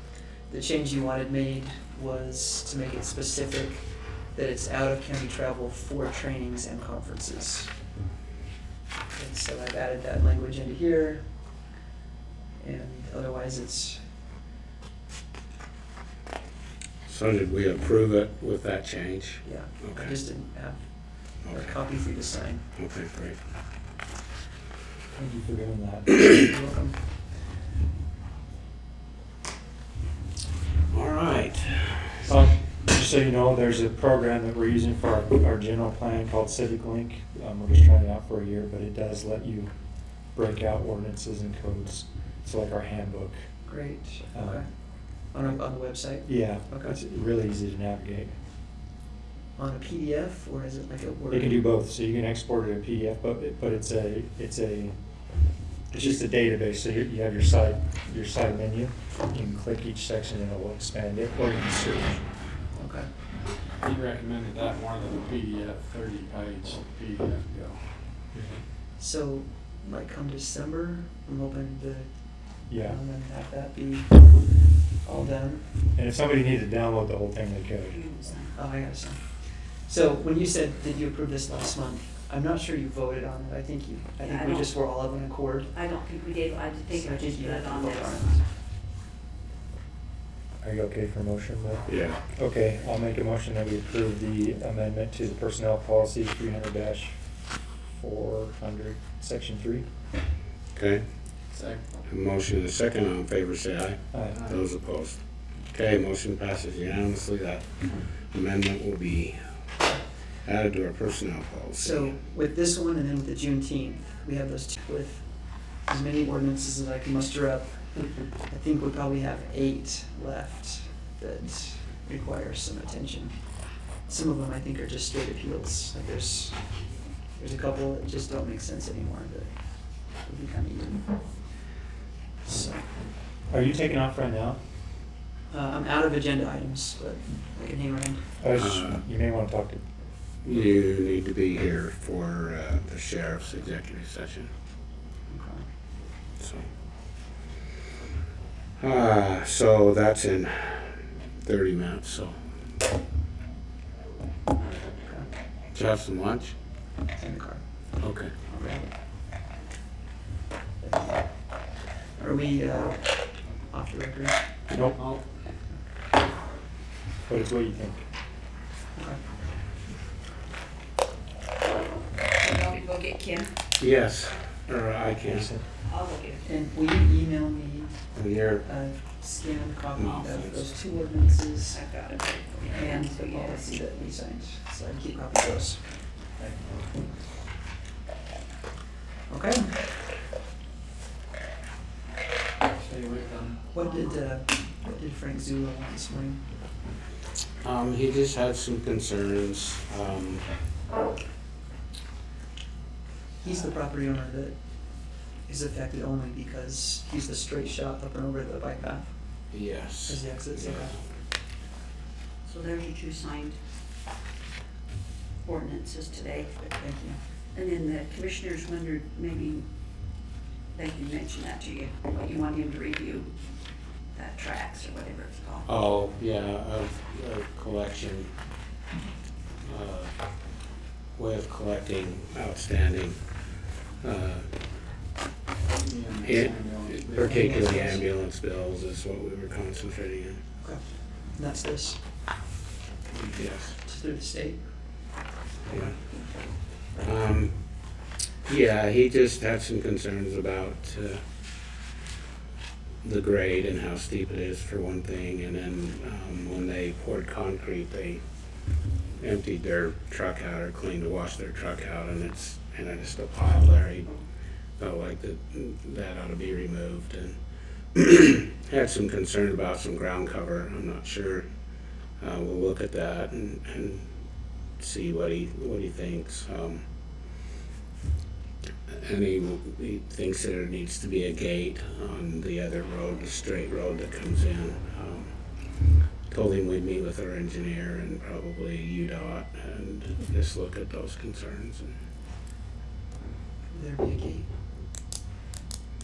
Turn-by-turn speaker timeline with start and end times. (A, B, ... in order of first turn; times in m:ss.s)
0:00.5-0:07.7 A
0:09.1-0:11.3 A
0:12.6-0:14.0 A
0:17.1-0:20.2 B
0:19.4-0:20.8 A
0:21.4-0:21.8 B
0:21.5-0:22.6 A
0:22.8-0:23.4 B
0:25.2-0:26.1 C
0:26.2-0:27.0 A
0:30.9-0:32.3 B
0:32.2-0:39.7 C
0:40.3-0:43.4 C
0:43.6-0:44.7 A
0:44.3-0:44.6 C
0:45.3-0:47.0 A
0:46.2-0:48.4 C
0:49.6-0:51.6 A
0:51.3-0:55.0 C
0:55.9-1:02.3 C
0:56.0-0:56.2 A
1:02.8-1:03.1 A
1:03.8-1:08.0 D
1:08.3-1:08.6 C
1:09.0-1:12.1 A
1:12.7-1:14.4 A
1:12.7-1:13.0 C
1:15.0-1:15.7 A
1:16.0-1:18.0 C
1:17.9-1:18.6 E
1:18.5-1:25.7 A
1:24.2-1:24.7 E
1:25.7-1:28.4 E
1:26.9-1:28.4 A
1:30.6-1:37.2 C
1:31.9-1:32.2 B
1:37.8-1:39.9 C
1:40.7-1:41.0 B
1:41.5-1:41.9 D
1:42.1-1:49.4 B
1:44.1-1:44.4 C
1:44.3-1:44.6 D
1:50.4-1:52.2 B
1:51.8-1:55.3 A
1:55.8-2:06.7 A
2:07.4-2:09.5 A
2:10.2-2:11.2 A
2:12.4-2:12.9 A
2:13.5-2:14.6 C
2:15.5-2:18.3 A
2:18.4-2:19.9 C
2:18.5-2:19.0 B
2:20.4-2:24.5 B
2:25.3-2:25.7 A
2:26.4-2:26.7 B
2:28.8-2:32.4 B
2:34.9-2:35.3 A
2:35.7-2:36.5 B
2:37.2-2:37.6 A
2:38.0-2:38.3 B
2:38.4-2:38.9 A
2:40.8-2:41.3 A
2:42.0-2:43.2 A
2:43.7-2:44.4 A
2:44.7-2:45.0 C
2:44.9-2:45.2 D
2:47.3-2:48.0 C
2:52.4-2:53.5 E
2:53.8-2:55.5 B
2:55.2-2:55.6 C
2:55.8-2:56.5 E
2:56.4-2:58.1 A
2:58.1-2:58.6 B
2:58.6-3:01.8 A
3:00.0-3:00.7 B
3:01.7-3:03.7 E
3:02.7-3:06.5 A
3:09.3-3:09.9 A
3:12.7-3:13.7 D
3:13.7-3:16.4 A
3:17.6-3:20.4 B
3:23.4-3:24.6 A
3:25.5-3:29.1 A
3:29.5-3:30.9 B
3:30.0-3:31.0 A
3:32.4-3:33.6 E
3:35.4-3:36.6 E
3:36.6-3:37.2 A
3:37.5-3:39.7 E
3:40.7-3:43.3 E
3:44.2-3:45.7 E
3:45.7-3:48.3 B
3:49.6-3:50.1 B
3:51.2-3:53.2 B
3:54.0-3:54.5 B
3:55.7-3:57.9 D
3:56.2-4:00.4 B
3:57.2-3:58.1 A
4:00.6-4:02.0 A
4:03.1-4:03.8 B
4:03.8-4:04.6 A
4:05.7-4:06.0 B
4:05.7-4:06.1 A
4:07.0-4:07.6 B
4:08.5-4:11.2 B
4:13.0-4:18.2 B
4:19.2-4:24.1 B
4:24.8-4:27.4 B
4:27.9-4:31.5 B
4:32.2-4:34.0 B
4:34.8-4:36.8 B
4:38.9-4:45.3 B
4:46.3-4:51.9 B
4:53.7-4:54.5 A